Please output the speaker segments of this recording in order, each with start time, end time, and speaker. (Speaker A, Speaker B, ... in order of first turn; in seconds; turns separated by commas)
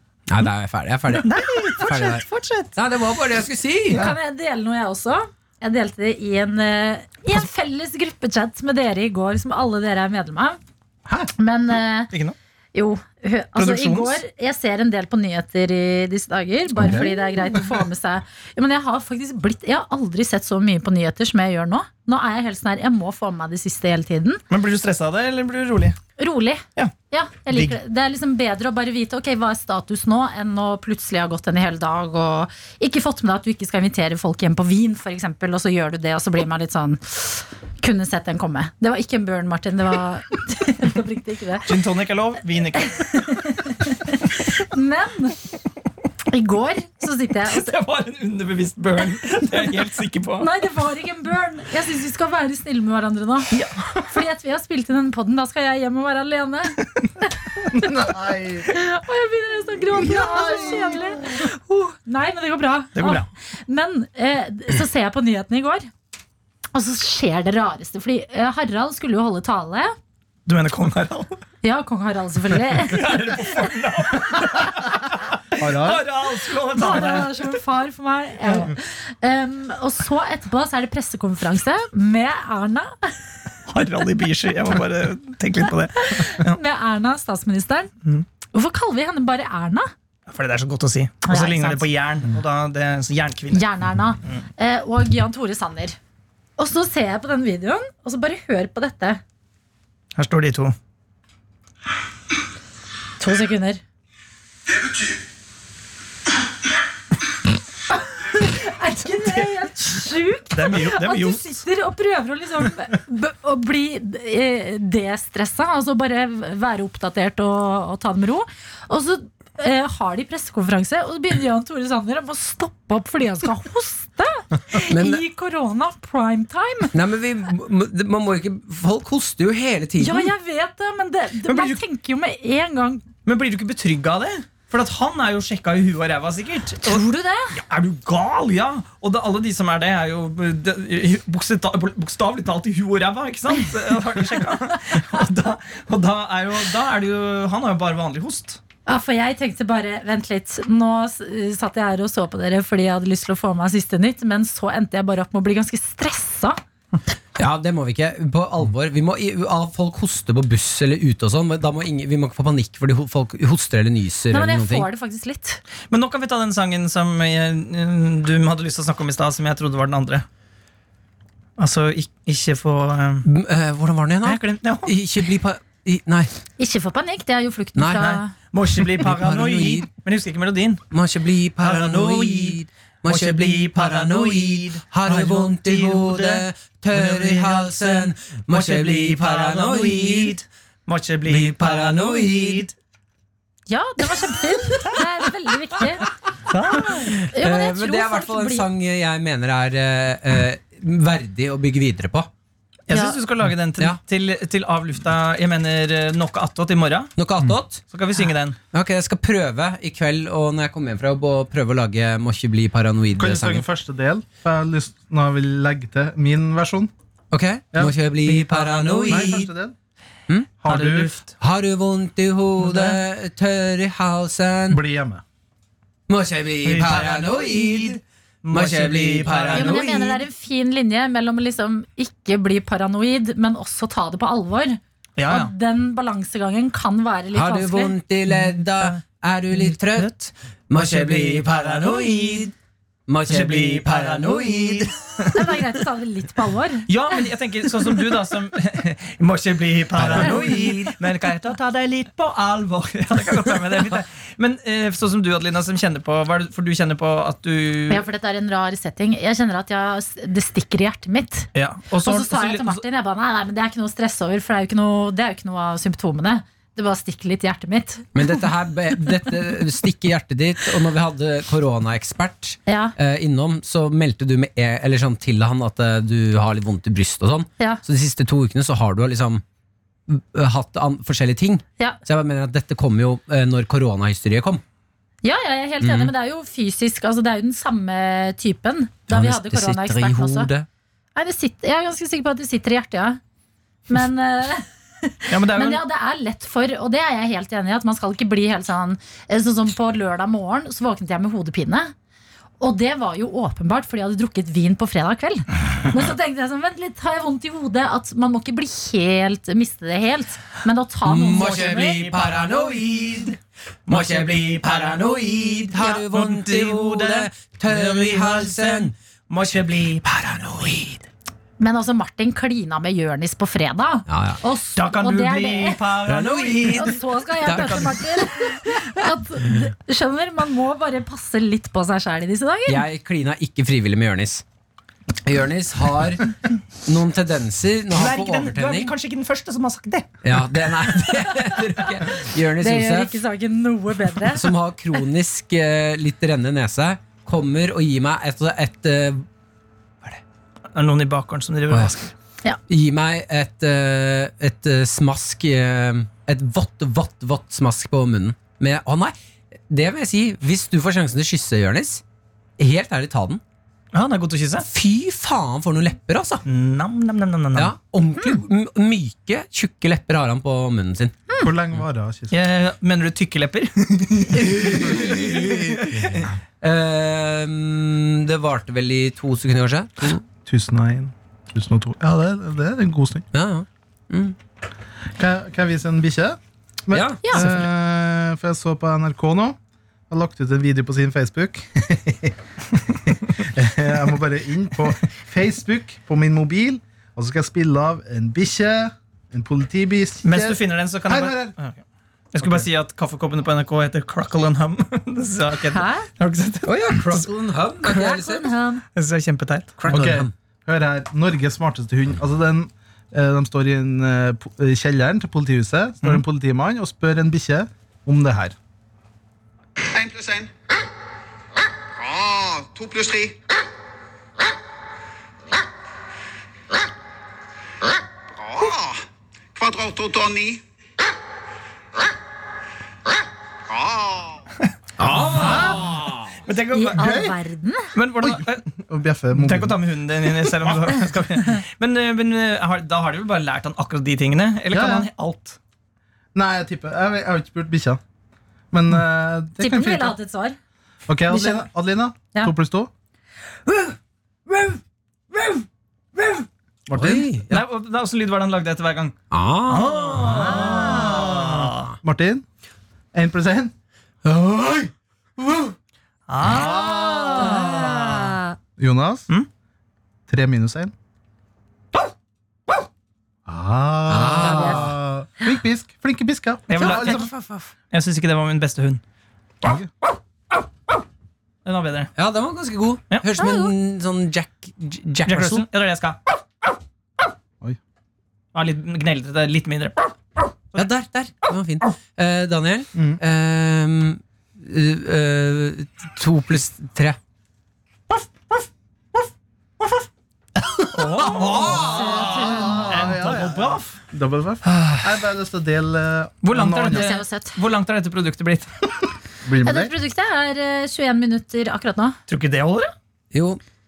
Speaker A: 0.3-4.1, Speaker B: 1.2-2.7, Speaker C: 3.9-10.6, Speaker C: 11.3-12.1, Speaker B: 12.1-12.3, Speaker C: 12.7-24.4, Speaker B: 13.7-14.1, Speaker D: 16.7-17.8, Speaker B: 24.5-26.0, Speaker C: 26.2-41.7, Speaker B: 27.5-27.8, Speaker B: 41.6-43.2, Speaker C: 43.0-45.4, Speaker C: 46.3-47.7, Speaker B: 47.5-50.5, Speaker C: 50.4-53.5, Speaker B: 53.5-54.0, Speaker C: 54.0-57.6, Speaker D: 57.7-58.7, Speaker C: 58.7-65.9, Speaker D: 59.9-61.4, Speaker B: 62.9-63.3, Speaker C: 66.7-69.9, Speaker B: 70.5-71.4, Speaker C: 71.6-73.5, Speaker B: 72.7-77.5, Speaker D: 75.6-76.0, Speaker C: 76.8-83.1, Speaker B: 83.7-86.6, Speaker C: 86.0-87.9, Speaker C: 88.5-89.9, Speaker B: 90.3-93.6, Speaker C: 91.2-91.9, Speaker C: 93.5-96.0, Speaker C: 96.6-99.2, Speaker B: 100.2-100.7, Speaker C: 103.2-103.8, Speaker C: 108.1-126.9, Speaker B: 110.5-111.5, Speaker A: 124.8-125.2, Speaker A: 126.9-130.3, Speaker C: 130.0-133.0, Speaker B: 131.5-131.8, Speaker B: 133.2-137.0, Speaker C: 136.8-137.6, Speaker B: 137.5-148.6, Speaker C: 148.8-156.6, Speaker A: 157.4-164.9, Speaker C: 164.3-165.6, Speaker B: 165.9-170.2, Speaker B: 171.6-173.2, Speaker A: 173.2-176.3, Speaker B: 174.2-174.9, Speaker C: 176.6-178.3, Speaker A: 177.7-178.2, Speaker B: 178.0-180.8, Speaker A: 178.9-179.9, Speaker A: 180.9-190.4, Speaker B: 181.6-192.7, Speaker A: 191.3-192.7, Speaker C: 193.7-196.1, Speaker B: 196.5-197.1, Speaker A: 196.9-202.3, Speaker C: 197.3-198.7, Speaker B: 202.9-207.1, Speaker C: 202.9-203.2, Speaker A: 207.2-207.8, Speaker B: 207.9-208.6, Speaker A: 208.7-213.6, Speaker D: 213.2-216.9, Speaker A: 217.3-219.5, Speaker B: 218.2-219.4, Speaker D: 219.1-219.7, Speaker D: 220.6-221.1, Speaker B: 220.7-221.3, Speaker A: 221.4-224.8, Speaker D: 224.7-225.2, Speaker A: 226.1-228.0, Speaker B: 226.6-229.9, Speaker A: 228.5-230.2, Speaker C: 229.5-237.9, Speaker B: 235.2-235.5, Speaker A: 237.3-240.1, Speaker B: 239.6-241.6, Speaker A: 240.7-242.5, Speaker A: 243.1-244.9, Speaker B: 243.3-245.3, Speaker C: 245.3-246.9, Speaker B: 246.9-258.0, Speaker A: 249.9-250.9, Speaker C: 250.2-250.8, Speaker C: 257.9-261.5, Speaker B: 261.5-262.8, Speaker C: 262.0-268.2, Speaker A: 268.1-279.4, Speaker C: 272.6-272.9, Speaker A: 280.1-284.6, Speaker C: 285.2-290.5, Speaker A: 285.8-286.1, Speaker A: 289.1-290.7, Speaker C: 291.1-293.2, Speaker C: 293.9-301.9, Speaker B: 295.3-295.8, Speaker C: 302.6-312.0, Speaker A: 311.0-313.3, Speaker B: 311.5-313.3, Speaker A: 313.9-318.9, Speaker B: 313.9-315.1, Speaker B: 315.6-320.1, Speaker A: 320.0-321.0, Speaker C: 321.6-325.8, Speaker A: 324.1-324.4, Speaker B: 324.8-326.9, Speaker A: 326.0-328.2, Speaker C: 326.7-332.8, Speaker A: 332.7-334.4, Speaker A: 335.2-338.9, Speaker B: 337.9-340.3, Speaker A: 340.2-343.2, Speaker C: 342.6-344.5, Speaker A: 344.3-349.2, Speaker B: 350.7-352.1, Speaker A: 352.7-359.1, Speaker A: 359.7-362.0, Speaker A: 362.6-363.4, Speaker B: 363.9-364.7, Speaker A: 364.6-366.4, Speaker B: 366.4-367.7, Speaker A: 367.5-371.2, Speaker D: 371.4-372.3, Speaker B: 372.3-376.3, Speaker A: 374.3-380.2, Speaker D: 380.4-383.2, Speaker A: 383.3-384.4, Speaker D: 385.2-389.6, Speaker A: 386.9-387.6, Speaker C: 387.2-387.5, Speaker D: 390.1-392.3, Speaker D: 393.0-401.6, Speaker B: 400.2-401.8, Speaker B: 402.3-407.3, Speaker C: 405.7-406.1, Speaker A: 406.6-408.5, Speaker C: 407.9-408.8, Speaker B: 408.9-409.7, Speaker A: 409.8-410.3, Speaker D: 409.9-418.5, Speaker E: 419.9-420.5, Speaker E: 422.0-423.4, Speaker E: 428.4-429.0, Speaker E: 429.6-430.6, Speaker E: 433.7-434.4, Speaker A: 435.0-436.4, Speaker D: 435.3-435.8, Speaker B: 436.4-437.2, Speaker C: 436.7-437.9, Speaker D: 436.9-437.4, Speaker B: 437.9-438.6, Speaker D: 438.2-439.8, Speaker B: 439.3-445.6, Speaker D: 444.7-445.1, Speaker D: 446.3-448.0, Speaker D: 448.7-450.2, Speaker C: 449.6-450.6, Speaker D: 451.1-452.9, Speaker C: 451.3-451.7, Speaker C: 453.6-453.9, Speaker C: 454.5-454.8, Speaker C: 455.3-455.6, Speaker C: 456.2-456.4, Speaker D: 456.9-457.3, Speaker A: 456.9-457.6, Speaker B: 457.5-459.1, Speaker A: 459.3-461.1, Speaker B: 459.7-461.9, Speaker D: 460.2-462.4, Speaker D: 463.1-463.7, Speaker A: 464.2-465.7, Speaker B: 466.3-468.2, Speaker D: 466.4-467.6, Speaker C: 467.3-468.5, Speaker D: 468.8-469.3, Speaker D: 470.3-470.9, Speaker D: 473.5-477.3, Speaker A: 474.1-475.0, Speaker C: 474.4-474.9, Speaker B: 476.7-477.3, Speaker B: 477.9-479.0, Speaker D: 479.6-479.9, Speaker B: 481.6-482.1, Speaker A: 482.1-485.6, Speaker C: 483.4-483.7, Speaker B: 485.2-486.2, Speaker B: 488.5-490.1, Speaker A: 490.8-497.2, Speaker D: 500.8-507.1, Speaker B: 500.9-504.0, Speaker A: 501.3-502.3, Speaker C: 501.8-503.1, Speaker B: 506.4-508.7, Speaker C: 506.9-507.6, Speaker D: 509.4-509.9, Speaker C: 509.6-512.2, Speaker B: 512.3-512.9, Speaker A: 513.3-513.6